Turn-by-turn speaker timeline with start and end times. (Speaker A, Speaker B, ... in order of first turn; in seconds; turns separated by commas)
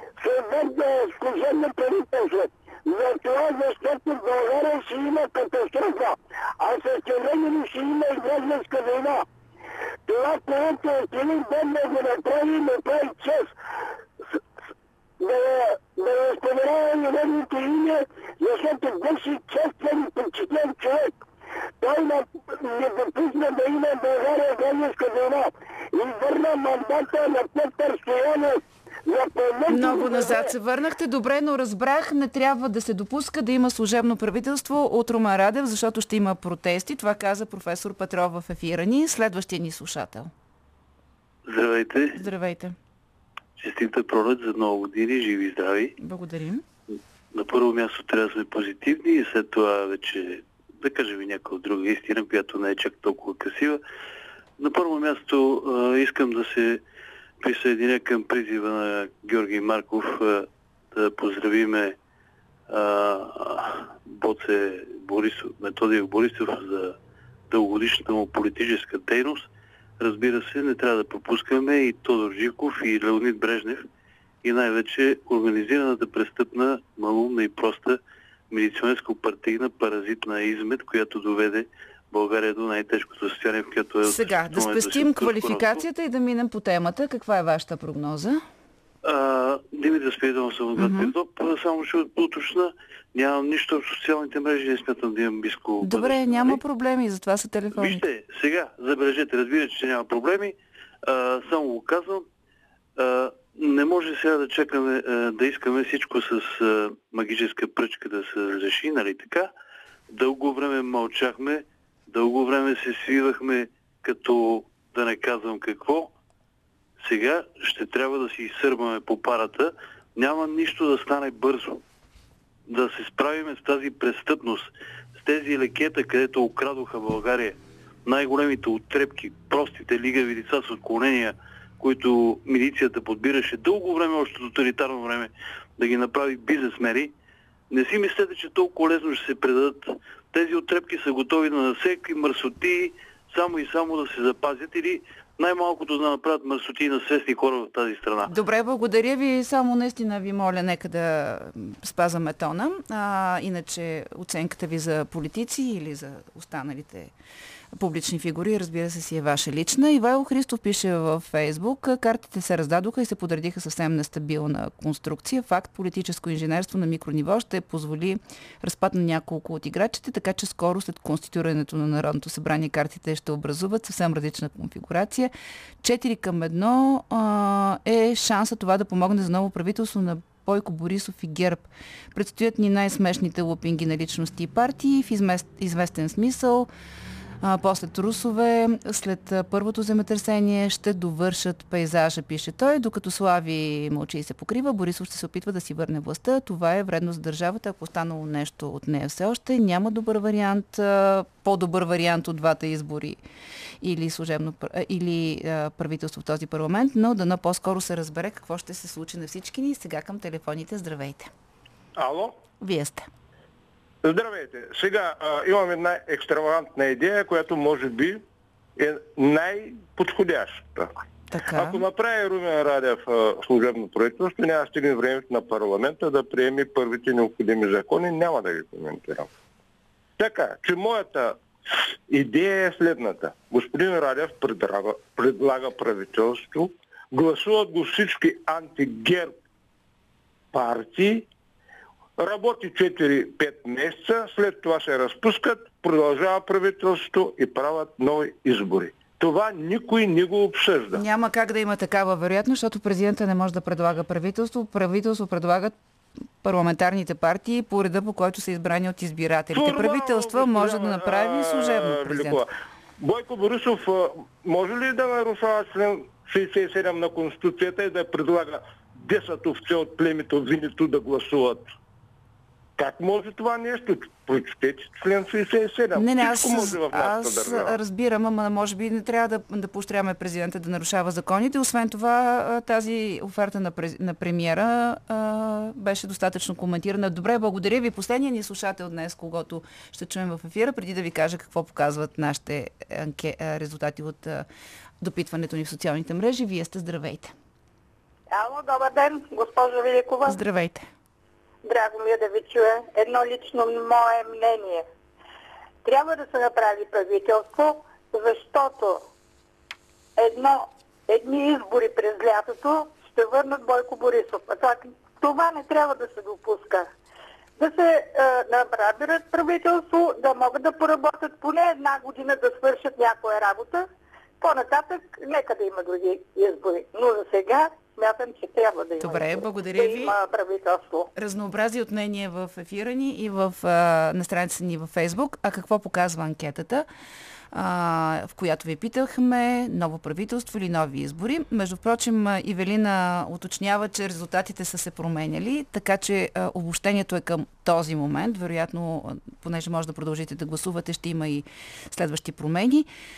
Speaker A: 0.2-9.2, Speaker A: 10.1-13.5, Speaker A: 15.2-21.1, Speaker A: 21.8-30.5, Speaker B: 29.7-40.3, Speaker C: 41.5-42.2, Speaker B: 42.1-42.8, Speaker C: 43.6-45.9, Speaker B: 46.0-46.6, Speaker C: 47.3-53.8, Speaker C: 54.6-56.8, Speaker C: 57.4-62.0, Speaker C: 62.7-67.0, Speaker C: 67.5-69.5, Speaker C: 70.0-73.8, Speaker C: 74.4-78.0, Speaker C: 78.5-85.8, Speaker B: 84.0-88.4, Speaker C: 89.0-96.6, Speaker B: 90.8-91.1, Speaker B: 95.8-98.0, Speaker C: 97.7-102.2, Speaker C: 103.0-109.5, Speaker C: 110.1-116.1, Speaker C: 117.0-121.8, Speaker C: 122.7-137.1, Speaker C: 137.7-148.3, Speaker B: 148.2-157.1, Speaker B: 157.8-186.7, Speaker B: 187.4-203.2, Speaker B: 203.8-211.3, Speaker D: 212.0-212.4, Speaker B: 212.6-213.1, Speaker D: 214.0-218.2, Speaker D: 218.8-220.9, Speaker B: 221.3-221.8, Speaker D: 221.5-229.3, Speaker D: 230.2-239.3, Speaker D: 240.5-241.3, Speaker D: 242.2-251.0, Speaker B: 250.9-255.8, Speaker B: 256.4-262.4, Speaker D: 259.5-262.4, Speaker D: 263.0-271.7, Speaker D: 272.8-277.8, Speaker B: 275.9-294.4, Speaker B: 295.0-297.3, Speaker E: 298.3-300.4, Speaker B: 300.2-300.8, Speaker E: 301.6-304.9, Speaker E: 305.8-309.0, Speaker E: 310.2-316.9, Speaker E: 317.6-323.9, Speaker E: 324.4-331.1, Speaker B: 329.0-330.1, Speaker B: 331.1-336.9, Speaker B: 337.5-352.9